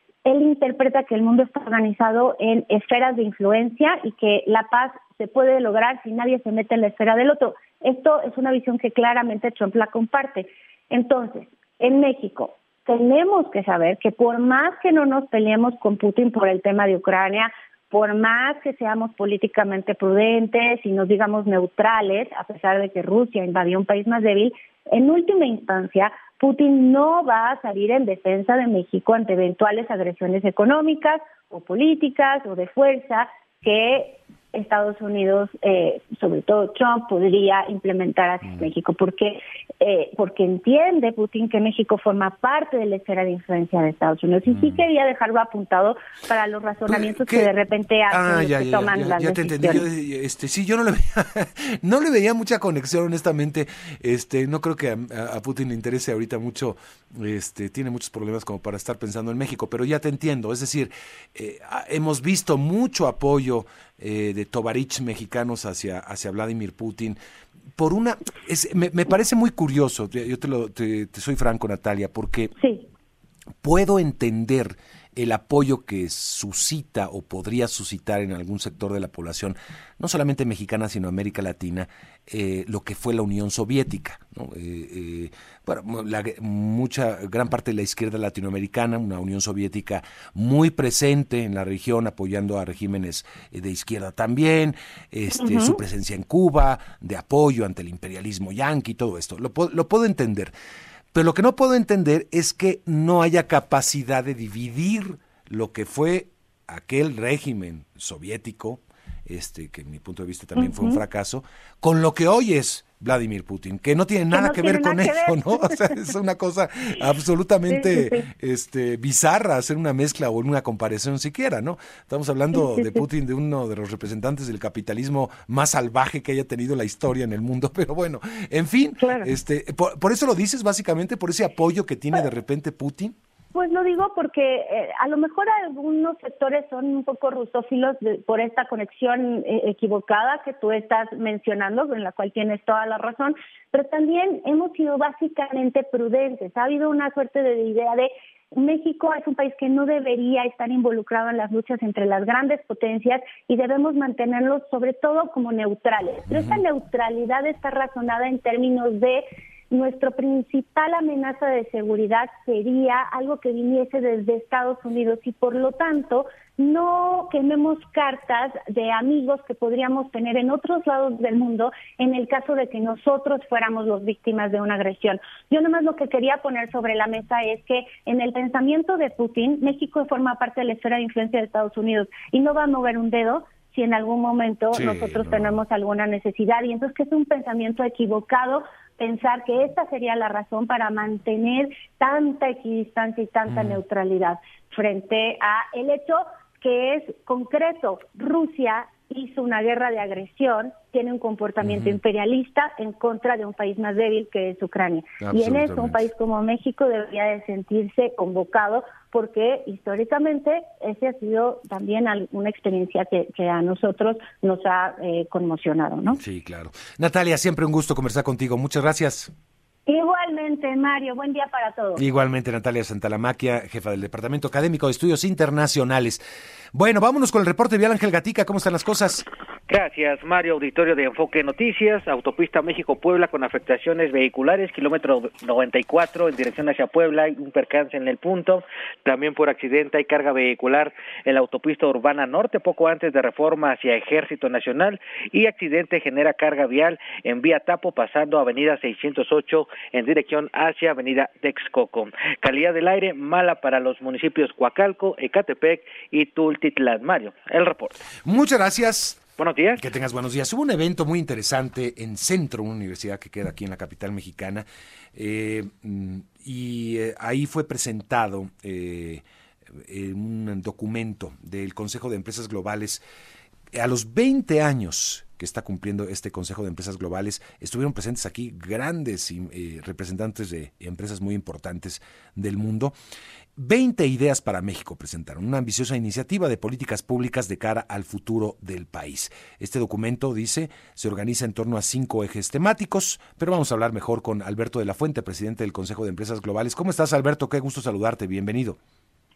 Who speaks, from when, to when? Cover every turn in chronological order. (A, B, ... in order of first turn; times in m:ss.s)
0:00.2-0:49.9 A
0:44.5-0:44.8 B
0:46.9-0:47.5 B
0:48.1-1:07.2 B
1:07.8-1:12.5 B
1:12.6-1:12.8 A
1:13.6-1:40.5 B
1:35.3-1:35.8 A
1:41.1-2:13.1 B
1:50.5-1:51.0 A
1:54.3-1:56.0 A
1:57.7-1:58.3 A
2:02.5-2:03.0 A
2:09.0-2:09.3 A
2:13.5-3:36.2 A
3:04.7-3:05.5 B
3:13.5-3:13.8 B
3:21.6-3:22.0 B
3:25.2-3:26.0 B
3:36.1-3:39.3 B
3:39.9-3:42.0 A
3:42.0-3:46.2 B
3:46.7-3:49.2 B
3:49.7-4:18.0 C
4:18.2-4:29.2 B
4:19.4-4:19.8 C
4:29.8-4:33.0 B
4:33.7-4:42.9 B
4:43.6-4:58.8 B